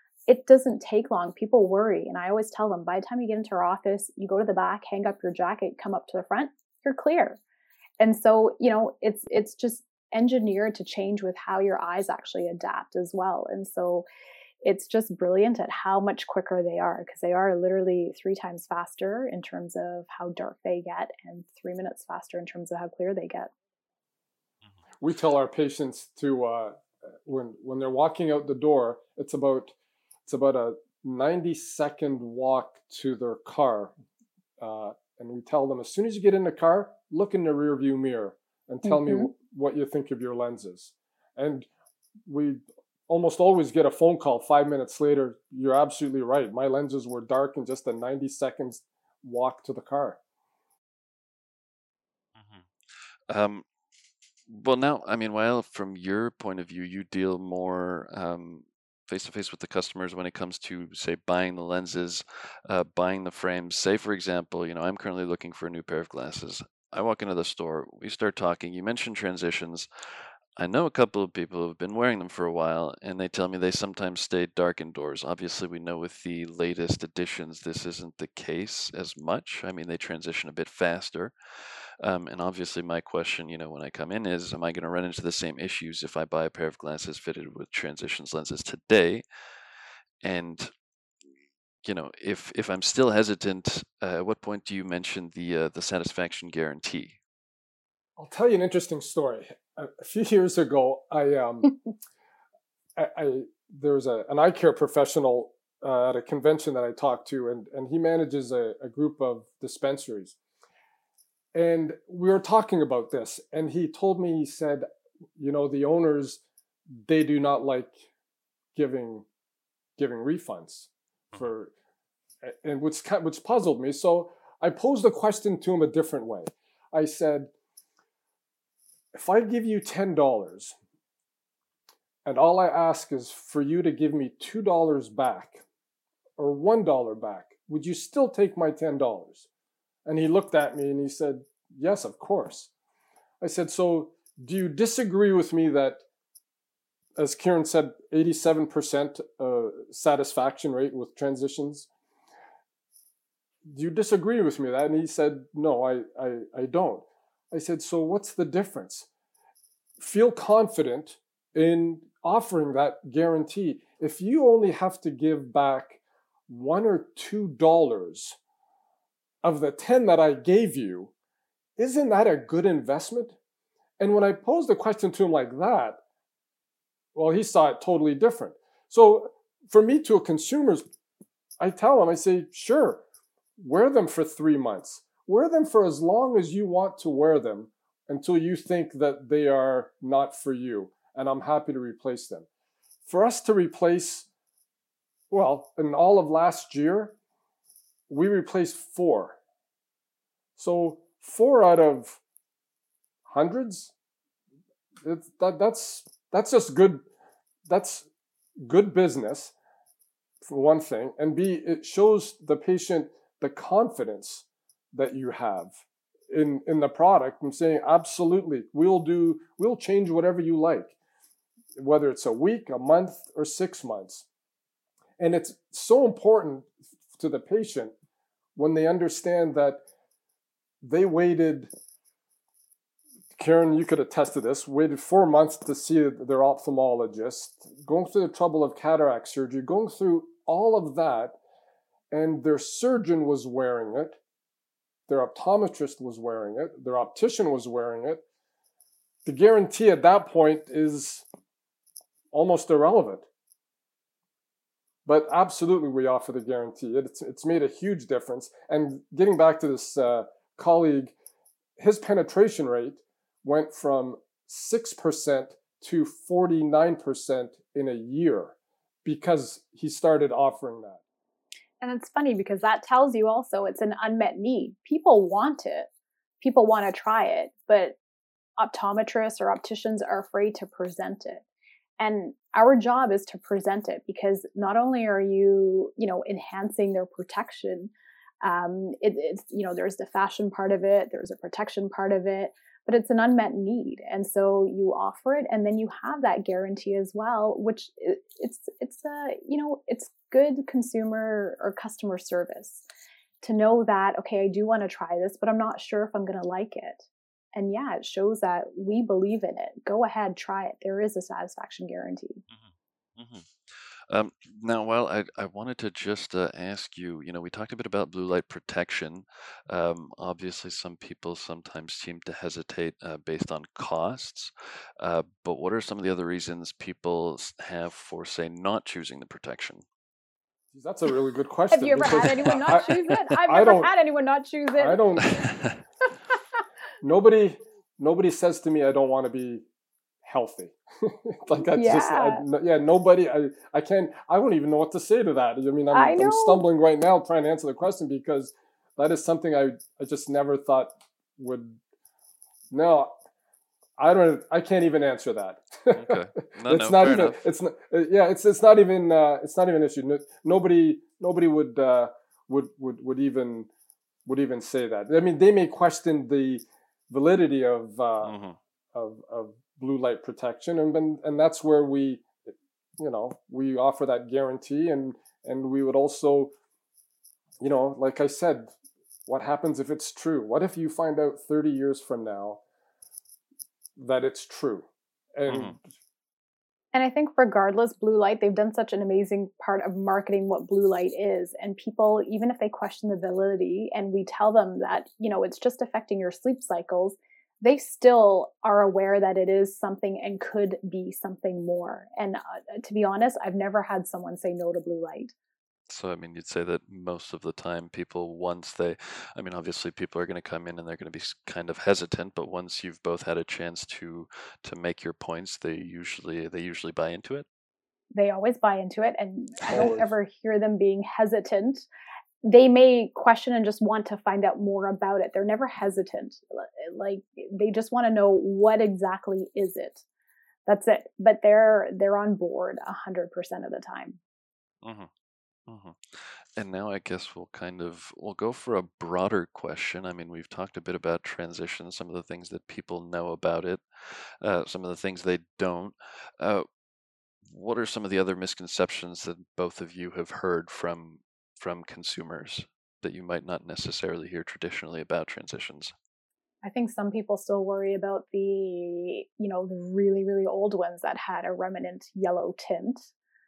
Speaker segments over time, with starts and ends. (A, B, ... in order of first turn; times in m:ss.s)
0:00.3-0:07.4 A
0:08.0-0:14.0 A
0:14.6-0:23.5 A
0:25.0-0:29.7 B
0:30.2-0:33.9 B
0:34.6-0:41.7 B
0:38.8-0:39.3 A
0:42.2-0:50.2 B
0:52.4-0:52.6 C
0:53.3-0:53.6 C
0:54.5-1:09.9 C
1:10.6-1:21.3 C
1:22.0-1:29.2 C
1:30.2-1:30.7 C
1:31.8-1:37.2 C
1:38.2-1:41.7 B
1:43.0-1:50.4 B
1:51.5-1:54.8 B
1:55.4-1:56.4 B
1:57.0-1:58.0 B
1:58.7-1:59.2 B
2:00.0-2:01.7 B
2:02.4-2:07.5 B
2:09.1-2:10.7 B
2:12.2-2:15.6 B
2:16.4-2:19.5 B
2:20.0-2:22.7 B
2:23.4-2:26.0 B
2:27.2-2:31.9 B
2:33.6-2:39.1 B
2:40.0-2:48.4 B
2:49.4-2:51.1 B
2:51.8-2:53.4 B
2:54.0-2:56.0 B
2:57.1-3:00.9 B
3:01.6-3:03.0 B
3:03.6-3:12.5 B
3:13.0-3:14.3 B
3:15.3-3:17.2 B
3:18.1-3:19.4 B
3:20.6-3:22.2 B
3:23.2-3:23.9 B
3:25.0-3:27.0 B
3:27.7-3:28.1 B
3:28.6-3:29.5 B
3:30.4-3:35.8 B
3:36.3-3:40.9 B
3:41.8-3:44.2 B
3:45.2-3:47.9 B
3:48.6-3:49.8 B
3:50.8-3:51.7 B
3:53.4-4:01.4 B
4:02.1-4:04.2 B
4:05.1-4:08.2 B
4:09.2-4:11.2 B
4:12.3-4:13.3 B
4:15.0-4:21.1 B
4:21.8-4:31.0 B
4:31.8-4:35.9 A
4:36.4-4:38.0 A
4:38.6-4:41.4 A
4:42.0-5:02.8 A
5:03.4-5:12.4 A
5:12.5-5:13.5 C
5:14.1-5:29.8 C
5:30.7-5:33.9 B
5:31.7-5:35.4 A
5:34.8-5:35.4 B
5:35.4-5:35.8 C
5:37.0-5:39.6 B
5:40.2-5:51.8 B
5:41.7-5:42.4 A
5:45.9-5:46.6 A
5:52.7-5:53.1 B
5:54.0-6:03.7 B
5:55.9-5:57.4 C
6:04.2-6:08.3 B
6:08.2-6:08.6 C
6:08.9-6:12.4 B
6:13.0-6:16.5 B
6:17.6-6:18.7 B
6:19.3-6:22.6 B
6:24.0-6:25.9 B
6:25.5-6:25.8 C
6:26.9-6:45.3 A
6:45.9-6:57.4 C
6:58.1-7:01.9 A
6:59.7-7:00.1 B
7:02.4-7:10.0 A
7:10.6-7:14.2 A
7:14.8-7:15.1 C
7:15.7-7:26.6 C
7:27.5-7:35.9 C
7:36.6-7:43.1 A